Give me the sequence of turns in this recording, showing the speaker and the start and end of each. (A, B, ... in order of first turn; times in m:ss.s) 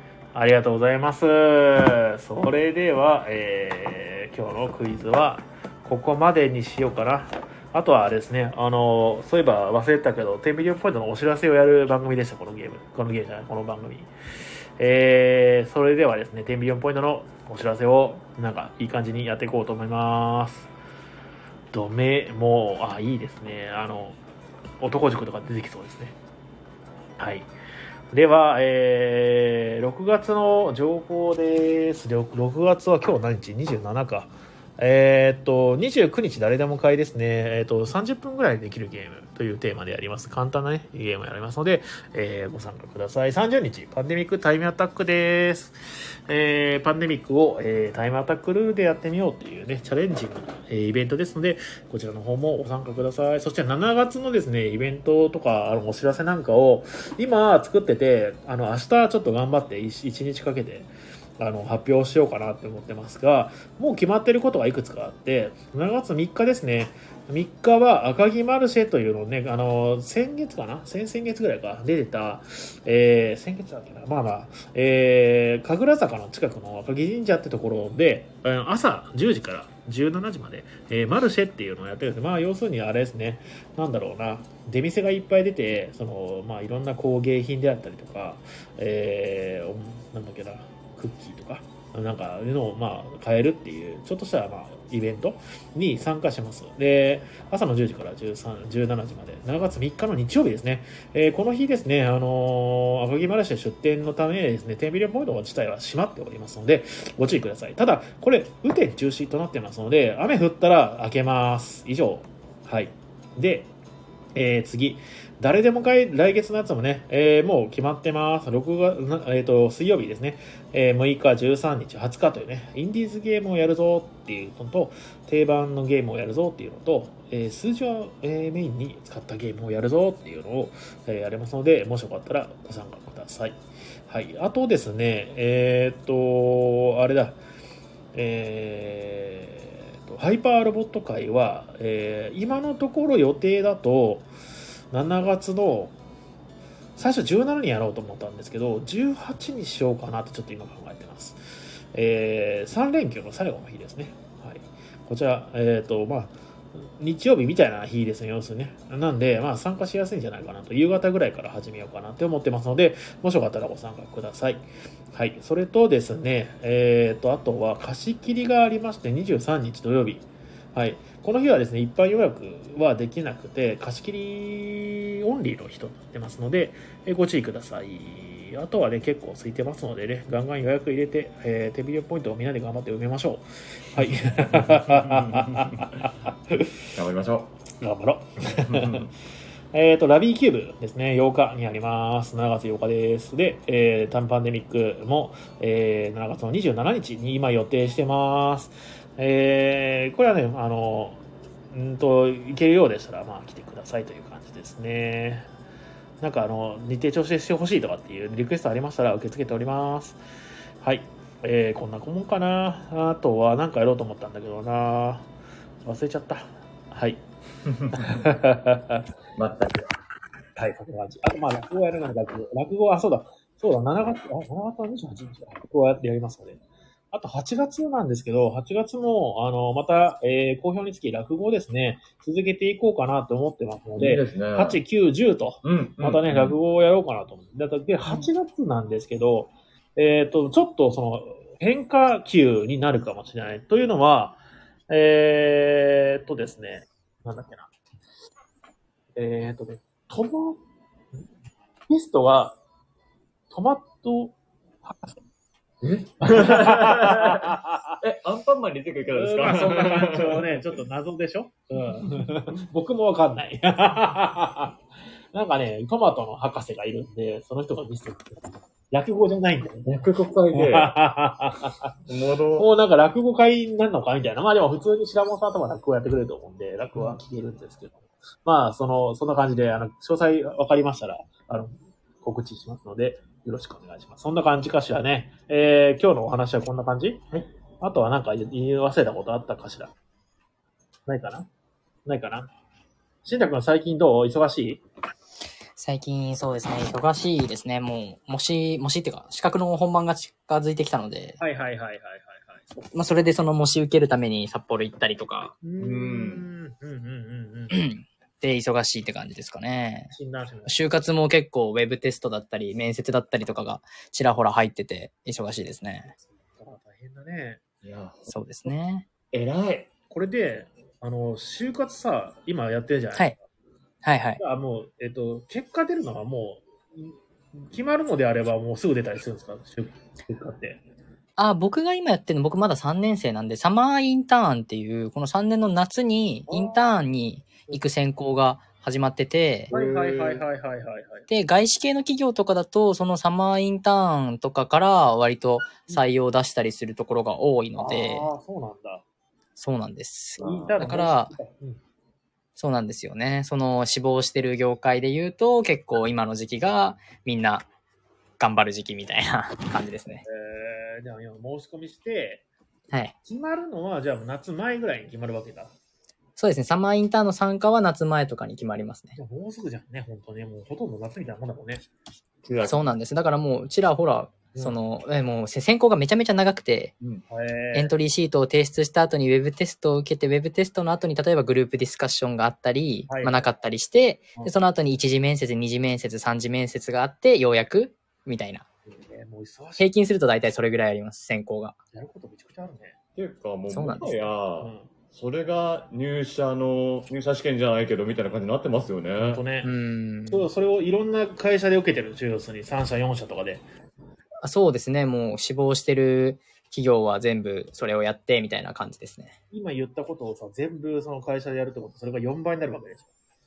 0:00.3-0:14.1 A
0:14.8-0:20.7 A
0:21.7-0:24.2 A
0:24.8-0:26.1 A
0:27.2-0:27.5 A
0:28.1-1:53.7 A
1:54.3-2:17.4 A
2:18.1-2:24.3 A
2:24.9-2:26.0 A
2:27.0-3:06.8 A
3:04.1-3:05.9 B
3:06.9-3:07.5 B
3:07.8-3:09.1 A
3:08.5-3:09.1 B
3:09.7-3:25.5 A
3:26.2-3:30.2 A
3:30.8-3:35.3 A
3:35.8-3:37.2 A
3:37.7-3:38.3 B
3:37.9-3:39.0 A
3:39.4-3:39.8 B
3:40.6-3:46.6 A
3:47.1-4:07.7 A
3:54.0-3:54.8 B
3:55.6-3:56.6 B
4:09.2-4:10.6 A
4:11.9-4:12.6 A
4:13.5-4:15.1 A
4:15.8-4:20.8 B
4:16.2-4:18.0 A
4:19.1-4:24.8 A
4:21.8-4:22.2 B
4:25.3-4:30.0 A
4:29.8-4:30.9 B
4:30.5-4:31.9 A
4:32.1-4:32.7 B
4:32.6-4:49.9 A
4:51.1-4:51.5 A
4:52.0-4:52.5 A
4:53.2-4:54.8 A
4:55.8-5:01.4 C
5:01.4-5:02.6 A
5:02.9-5:05.5 C
5:05.6-5:07.8 A
5:05.8-5:06.4 B
5:07.7-5:10.1 C
5:10.1-5:10.8 A
5:10.7-5:16.1 C
5:16.2-5:17.6 A
5:17.8-5:18.3 B
5:18.3-5:19.1 C
5:19.3-5:19.9 B
5:20.1-5:23.4 A
5:24.0-5:24.4 C
5:24.4-5:30.8 A
5:31.4-5:39.7 C
5:36.5-5:36.9 A
5:39.7-5:40.4 B
5:39.7-5:41.3 A
5:41.3-5:48.3 C
5:47.8-5:49.0 A
5:49.6-5:51.3 C
5:50.4-5:50.8 B
5:50.4-5:51.8 A
5:52.6-5:57.6 C
5:58.4-6:00.2 C
6:00.2-6:02.4 A
6:03.2-6:05.7 A
6:06.4-6:09.2 C
6:09.2-6:11.9 A
6:12.4-6:12.9 B
6:12.6-6:16.9 C
6:17.3-6:17.9 A
6:17.7-6:28.6 C
6:23.1-6:23.4 A
6:28.8-6:29.9 A
6:29.8-6:31.7 C
6:31.9-6:33.0 A
6:33.2-6:39.4 B
6:33.7-6:34.3 C
6:34.6-6:34.9 A
6:39.2-6:39.7 A
6:39.6-6:40.5 C
6:40.3-6:43.6 A
6:44.4-6:49.3 C
6:49.5-6:53.1 A